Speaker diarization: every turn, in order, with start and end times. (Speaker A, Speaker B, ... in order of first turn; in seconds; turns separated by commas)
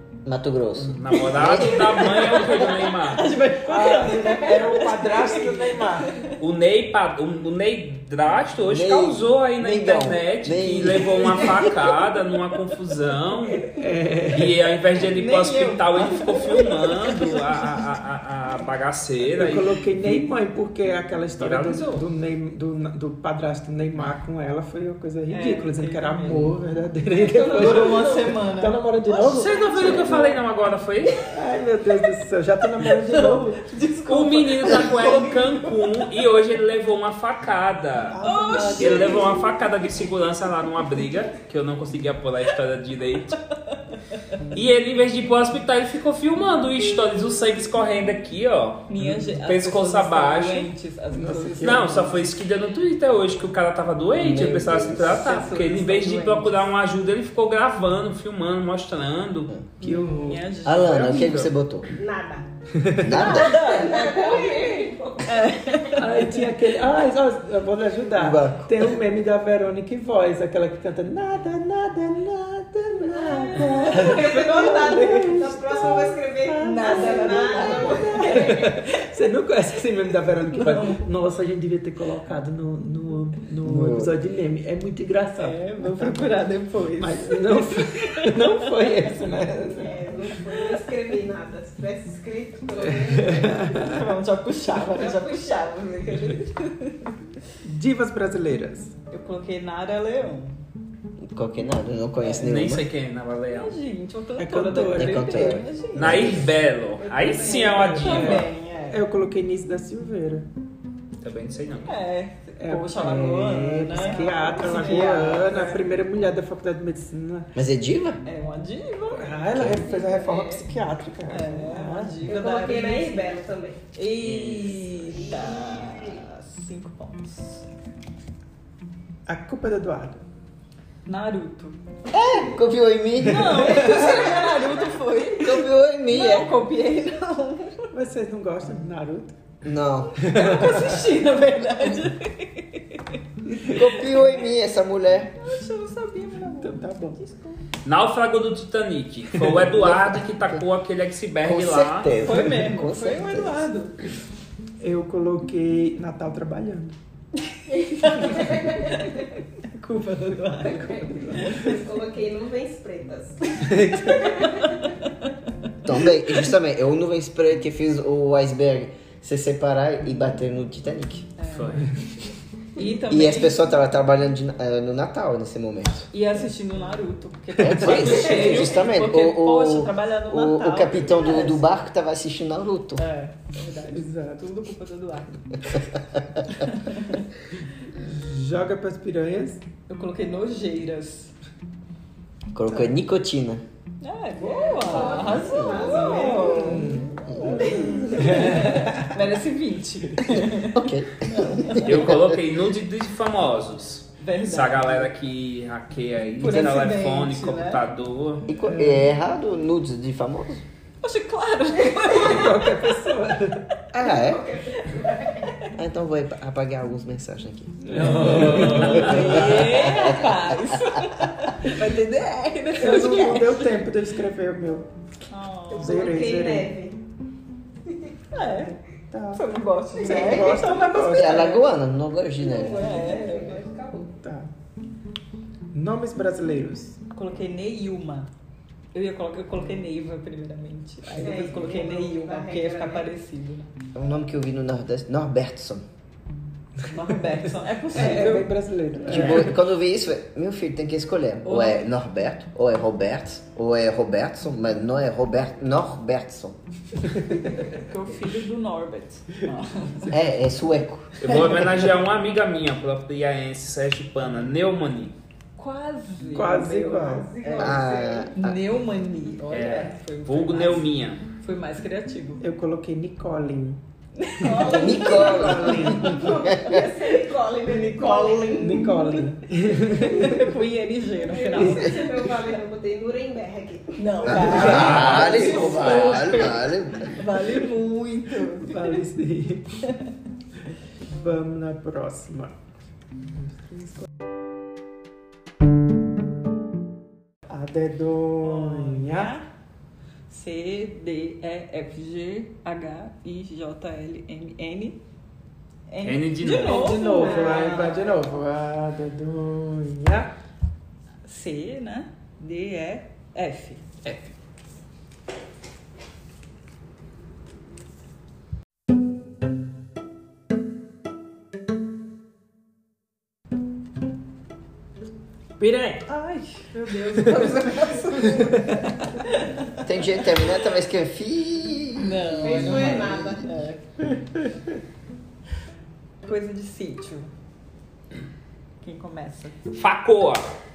Speaker A: 0.2-2.0, Speaker B: 0.8-3.2, Speaker C: 1.1-6.4, Speaker D: 3.6-6.1, Speaker B: 6.4-13.7, Speaker A: 8.7-11.6, Speaker D: 13.7-14.6, Speaker B: 14.3-20.2, Speaker C: 15.0-17.8, Speaker D: 19.4-30.4, Speaker B: 21.4-22.1, Speaker C: 25.3-26.6, Speaker E: 27.2-28.3, Speaker C: 27.4-30.2, Speaker B: 29.1-31.2, Speaker D: 31.3-33.6, Speaker C: 32.8-36.0, Speaker B: 34.1-38.2, Speaker D: 38.1-39.5, Speaker C: 38.2-39.3, Speaker B: 38.8-43.4, Speaker C: 43.7-44.2, Speaker B: 44.5-50.7, Speaker C: 48.9-52.1, Speaker D: 51.1-52.1, Speaker B: 51.6-59.5, Speaker A: 54.2-55.3, Speaker C: 54.9-56.5, Speaker D: 59.8-60.4, Speaker C: 59.8-61.2, Speaker A: 60.7-61.9, Speaker B: 60.8-61.5, Speaker E: 62.0-62.5, Speaker D: 62.7-63.4, Speaker A: 63.0-63.6, Speaker C: 63.1-66.4, Speaker E: 63.4-66.0, Speaker D: 66.0-86.3, Speaker A: 68.1-68.9, Speaker E: 72.9-78.8, Speaker C: 73.6-75.3, Speaker C: 76.6-78.9, Speaker C: 80.5-81.0, Speaker A: 83.6-84.2, Speaker C: 85.4-89.3, Speaker D: 87.0-90.1, Speaker E: 89.7-93.9, Speaker D: 92.9-94.0, Speaker C: 93.7-97.1, Speaker E: 94.8-96.5, Speaker D: 97.6-98.9, Speaker C: 99.1-100.6, Speaker A: 101.2-102.9, Speaker B: 102.4-103.8, Speaker C: 103.5-106.4, Speaker D: 104.4-105.6, Speaker A: 104.8-106.5, Speaker B: 106.0-108.5, Speaker E: 107.0-108.4, Speaker C: 107.4-109.0, Speaker D: 107.8-110.5, Speaker B: 111.2-112.0, Speaker C: 111.9-115.8, Speaker D: 112.6-117.5, Speaker E: 113.9-115.3, Speaker A: 117.5-118.2, Speaker C: 118.2-120.6, Speaker D: 119.1-122.3, Speaker E: 119.8-120.5, Speaker C: 121.3-123.4, Speaker E: 122.2-123.8, Speaker C: 123.9-127.7, Speaker B: 124.2-124.9, Speaker E: 125.1-126.2, Speaker D: 129.2-130.2, Speaker C: 131.1-131.8, Speaker A: 132.1-134.2, Speaker C: 133.2-137.9, Speaker D: 133.6-134.3, Speaker A: 135.3-136.5, Speaker D: 137.9-139.3, Speaker A: 139.6-140.4, Speaker C: 140.2-143.2, Speaker D: 140.2-141.1, Speaker D: 143.5-143.8, Speaker A: 143.6-145.4, Speaker C: 143.8-144.2, Speaker C: 145.4-147.6, Speaker D: 146.6-147.2, Speaker B: 147.8-152.2, Speaker A: 149.6-150.6, Speaker A: 151.4-153.7, Speaker C: 152.2-153.9, Speaker D: 154.8-157.0, Speaker C: 157.6-161.7, Speaker E: 158.1-159.1, Speaker E: 160.7-164.8, Speaker D: 163.7-164.3, Speaker C: 164.1-165.7, Speaker A: 165.8-171.3, Speaker C: 171.4-171.8, Speaker B: 171.5-171.9, Speaker C: 172.8-173.6, Speaker A: 173.1-176.1, Speaker C: 176.1-181.6, Speaker A: 177.6-183.0, Speaker B: 177.8-178.8, Speaker C: 183.0-185.3, Speaker D: 183.9-184.4, Speaker C: 186.5-187.2, Speaker D: 188.0-189.6, Speaker C: 189.9-191.3, Speaker A: 192.5-193.6, Speaker C: 194.0-201.9, Speaker E: 194.4-198.8, Speaker A: 195.1-196.1, Speaker D: 195.9-199.2, Speaker A: 197.3-197.6, Speaker A: 200.4-202.4, Speaker B: 201.8-208.5, Speaker C: 204.2-205.1, Speaker C: 206.4-207.8, Speaker A: 208.5-210.6, Speaker D: 208.6-209.1, Speaker C: 211.0-212.8, Speaker D: 212.1-213.7, Speaker A: 213.9-214.4, Speaker E: 214.0-215.6, Speaker C: 215.1-215.7, Speaker A: 215.7-221.1, Speaker D: 217.8-219.8, Speaker B: 218.0-219.2, Speaker C: 218.2-223.8, Speaker D: 222.8-224.9, Speaker C: 225.3-226.1, Speaker E: 225.7-227.0, Speaker D: 225.8-226.7, Speaker C: 228.3-228.8, Speaker D: 228.6-229.4, Speaker C: 229.3-231.5, Speaker D: 230.0-231.6, Speaker E: 230.0-230.9, Speaker A: 230.9-232.9, Speaker E: 232.4-234.2, Speaker C: 232.7-233.6, Speaker D: 234.2-234.5, Speaker D: 235.7-237.0, Speaker C: 237.1-238.3, Speaker C: 238.9-243.7, Speaker E: 241.2-243.1, Speaker A: 243.9-245.8, Speaker C: 246.9-248.6, Speaker D: 247.9-249.6, Speaker A: 249.1-256.6, Speaker C: 251.4-251.8, Speaker C: 257.6-260.1, Speaker A: 260.1-261.1, Speaker B: 261.2-265.1, Speaker C: 265.6-272.4, Speaker D: 266.4-267.3, Speaker E: 267.1-268.3, Speaker A: 267.6-268.6, Speaker B: 269.5-271.2, Speaker D: 272.4-273.8, Speaker C: 274.2-279.2, Speaker E: 274.4-279.2, Speaker D: 274.5-276.4, Speaker A: 274.6-276.8, Speaker D: 278.6-280.4, Speaker C: 279.8-282.4, Speaker E: 279.9-280.4, Speaker E: 281.2-285.1, Speaker D: 281.6-282.1, Speaker C: 284.0-289.0, Speaker A: 284.2-287.2, Speaker D: 284.6-285.7, Speaker B: 284.7-285.4, Speaker D: 288.5-289.8, Speaker D: 291.0-292.5, Speaker D: 293.4-294.0, Speaker D: 297.5-299.3, Speaker C: 298.4-299.5, Speaker C: 300.3-305.0, Speaker C: 305.9-308.1, Speaker B: 306.1-306.8, Speaker E: 306.6-308.1, Speaker D: 306.7-310.3, Speaker C: 311.2-313.9, Speaker D: 325.6-326.1, Speaker C: 326.1-330.4, Speaker D: 327.1-327.8, Speaker D: 328.3-328.8, Speaker A: 329.8-333.2, Speaker C: 332.0-333.8, Speaker E: 332.4-333.5, Speaker C: 336.2-337.3, Speaker C: 338.8-339.6, Speaker B: 339.7-340.5